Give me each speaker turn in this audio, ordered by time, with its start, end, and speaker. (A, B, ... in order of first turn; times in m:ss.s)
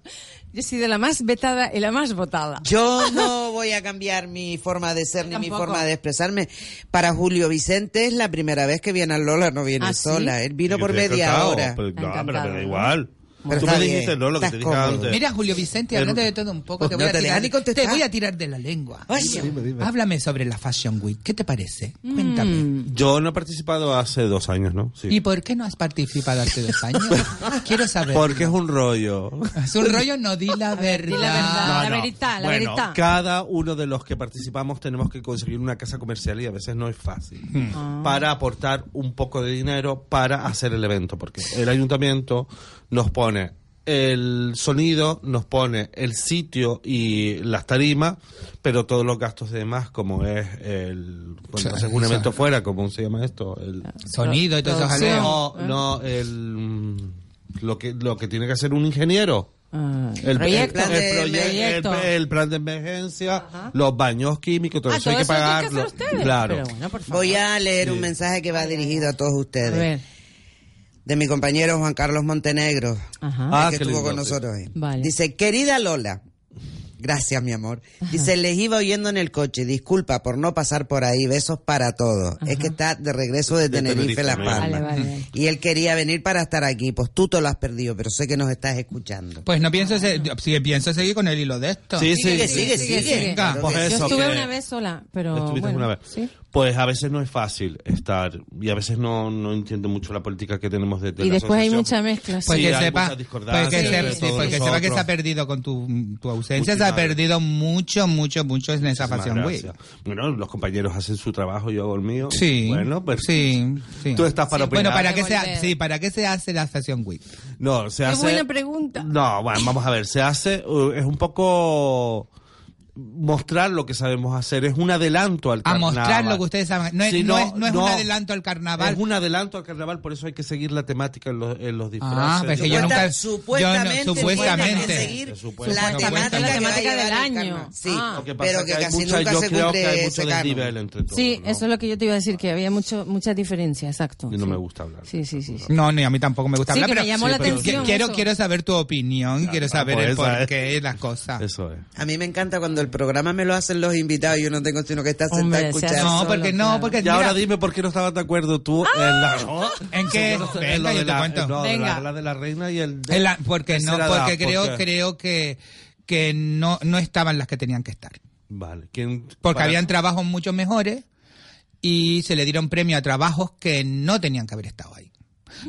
0:00.5-0:03.3 A
0:02.6-0:11.8 B
0:05.3-0:05.8 A
0:09.8-0:10.4 A
0:10.7-0:15.2 C
0:12.0-0:13.8 A
0:13.5-0:15.1 B
0:15.1-0:22.6 D
0:15.9-0:16.2 C
0:16.9-0:18.0 B
0:19.1-0:19.5 B
0:19.1-0:19.9 C
0:22.0-0:22.9 A
0:22.9-0:25.2 C
0:25.1-0:28.5 D
0:28.1-0:29.9 C
0:29.6-0:31.8 D
0:30.8-0:33.0 A
0:31.1-0:53.9 C
0:37.7-0:38.2 A
0:51.6-0:52.3 D
0:54.1-0:55.4 D
0:54.2-0:55.8 A
0:54.9-0:59.5 C
0:59.7-1:02.1 A
1:00.2-1:06.7 C
1:00.5-1:01.6 B
1:04.9-1:07.4 A
1:07.1-1:09.9 B
1:07.8-1:08.1 C
1:08.5-1:09.1 A
1:09.6-1:10.0 A
1:11.0-1:13.0 B
1:13.2-1:13.6 A
1:13.5-1:14.4 C
1:13.5-1:16.2 B
1:14.8-1:15.1 A
1:17.0-1:24.8 B
1:18.0-1:18.3 A
1:22.4-1:22.7 A
1:23.5-1:24.9 C
1:24.6-1:25.2 A
1:25.3-1:29.4 B
1:29.4-1:32.1 D
1:29.8-1:30.3 A
1:32.0-1:34.5 C
1:32.1-1:36.3 A
1:32.1-1:34.2 B
1:32.9-1:33.8 D
1:35.3-1:45.1 C
1:41.2-1:42.8 A
1:42.4-1:49.7 D
1:43.7-1:44.7 A
1:46.5-1:47.2 C
1:48.9-1:53.6 C
1:52.3-1:57.2 D
1:54.1-1:55.2 C
1:54.5-1:55.7 A
1:57.6-2:02.3 C
1:58.0-1:59.1 A
2:03.0-2:06.4 C
2:05.6-2:09.0 D
2:07.0-2:08.1 C
2:08.8-2:13.0 C
2:12.0-2:15.1 D
2:12.6-2:20.7 B
2:14.1-2:15.1 A
2:15.2-2:15.9 C
2:15.7-2:16.8 D
2:15.7-2:18.3 A
2:18.1-2:21.6 C
2:21.1-2:25.7 A
2:24.3-2:25.7 C
2:25.7-2:31.4 D
2:26.7-2:28.2 A
2:27.2-2:28.0 C
2:29.4-2:30.7 C
2:31.4-2:31.8 C
2:32.0-2:36.2 B
2:35.3-2:37.0 A
2:35.9-2:37.4 D
2:37.0-2:44.8 C
2:39.1-2:39.4 A
2:39.9-2:41.5 D
2:41.6-2:42.0 A
2:43.1-2:48.2 D
2:48.5-2:49.9 C
2:49.4-2:51.0 D
2:51.8-2:55.1 D